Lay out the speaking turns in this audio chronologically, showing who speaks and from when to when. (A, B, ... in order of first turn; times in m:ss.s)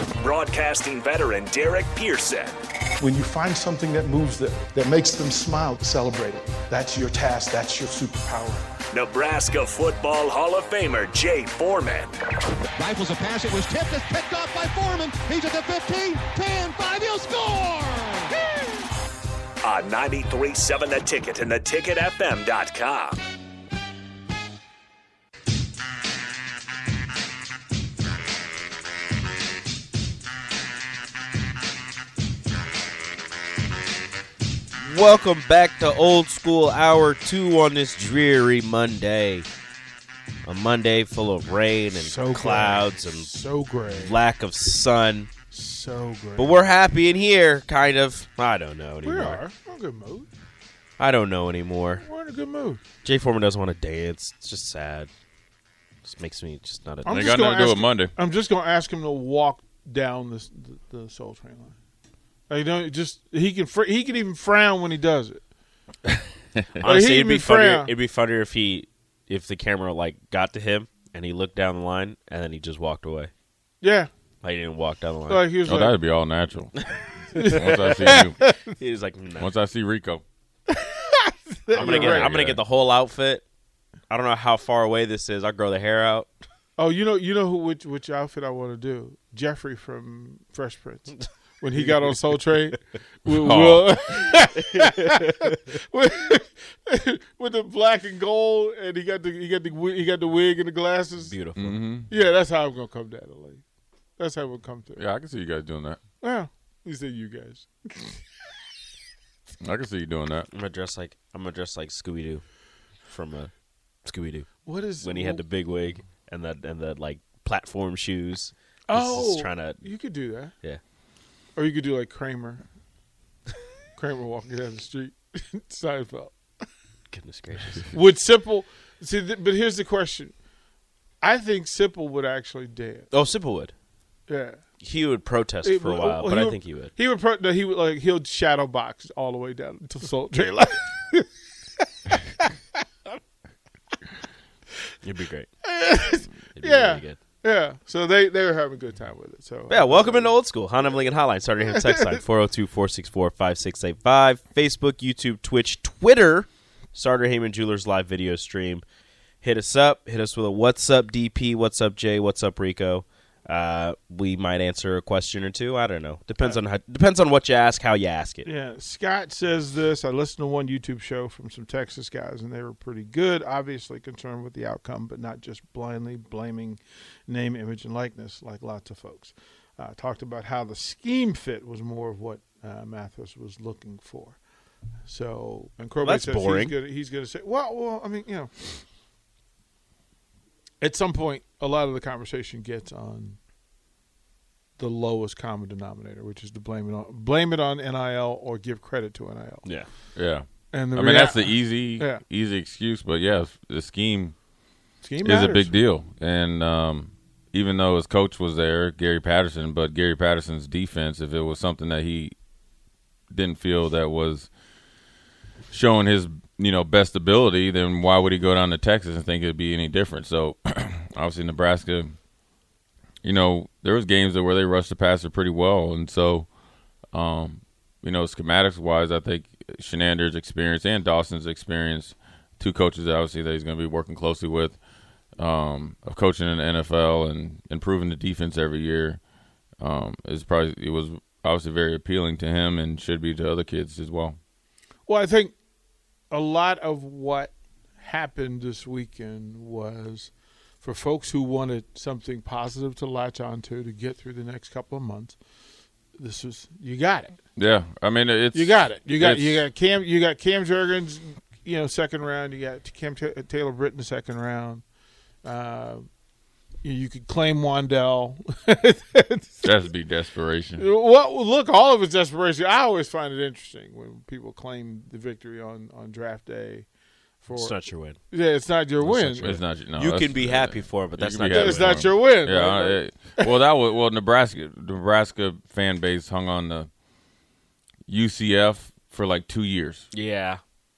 0:00.2-0:02.6 A
0:03.0-0:08.6 B
0:06.6-0:06.9 C
0:08.9-0:12.2 A
0:12.8-0:18.3 D
0:19.6-0:23.2 A
0:34.8-0:39.4 E
0:40.4-0:43.3 E
0:41.9-0:44.2 C
0:43.8-0:45.3 E
0:45.5-0:46.6 C
0:46.4-0:49.4 E
0:49.0-0:50.3 C
0:51.0-0:52.0 E
0:52.0-0:52.8 C
0:53.0-0:55.1 E
0:56.0-0:57.3 E
0:57.0-1:01.8 C
0:57.0-0:58.1 F
1:02.5-1:05.4 C
1:06.8-1:13.3 E
1:06.8-1:07.9 C
1:13.8-1:14.1 C
1:14.4-1:15.4 E
1:15.3-1:15.9 C
1:15.6-1:16.8 F
1:17.3-1:18.4 C
1:17.3-1:18.4 F
1:18.8-1:19.5 E
1:19.4-1:20.2 F
1:20.7-1:22.4 C
1:21.7-1:23.4 E
1:21.8-1:22.6 F
1:24.1-1:26.3 E
1:26.8-1:41.4 C
1:31.8-1:32.4 E
1:33.4-1:34.0 F
1:34.6-1:35.5 E
1:41.2-1:41.8 E
1:41.6-1:42.1 F
1:42.1-1:43.6 C
1:44.2-1:45.0 C
1:45.0-1:46.0 F
1:46.2-1:48.2 C
1:49.6-1:50.5 F
1:50.5-1:52.4 E
1:53.1-1:53.5 E
1:54.0-1:59.8 E
1:54.6-1:55.4 C
1:58.9-2:00.5 C
2:01.6-2:02.6 C
2:03.9-2:06.4 C
2:07.1-2:07.9 E
2:07.9-2:10.4 C
2:11.2-2:13.1 C
2:13.1-2:13.7 E
2:14.3-2:14.6 C
2:14.8-2:16.9 E
2:15.6-2:21.8 C
2:25.0-2:25.5 E
2:25.6-2:30.3 C
2:26.5-2:27.2 E
2:29.7-2:38.8 E
2:31.8-2:32.0 C
2:39.4-2:48.5 E
2:48.4-3:04.4 C
3:05.1-3:08.8 C
3:06.0-3:06.8 E
3:10.8-3:13.4 C
3:14.8-3:19.8 C
3:20.1-3:24.4 F
3:20.7-3:22.2 C
3:25.0-3:25.7 C
3:25.2-3:32.3 F
3:33.3-3:34.5 F
3:35.7-3:42.2 F
3:43.2-3:46.5 F
3:47.1-3:54.8 F
3:55.4-3:59.2 F
3:59.8-4:04.4 F
4:05.1-4:05.6 C
4:06.3-4:15.4 C
4:16.2-4:17.4 C
4:17.6-4:19.6 F
4:18.5-4:24.8 C
4:25.4-4:26.1 C
4:26.8-4:29.6 C
4:29.6-4:30.9 F
4:30.8-4:36.9 C
4:37.4-4:37.8 C
4:37.5-4:38.2 E
4:38.3-4:39.5 C
4:39.0-4:42.2 E
4:39.3-4:46.9 F
4:41.5-4:43.4 C
4:48.1-4:50.1 F
4:50.1-4:50.6 E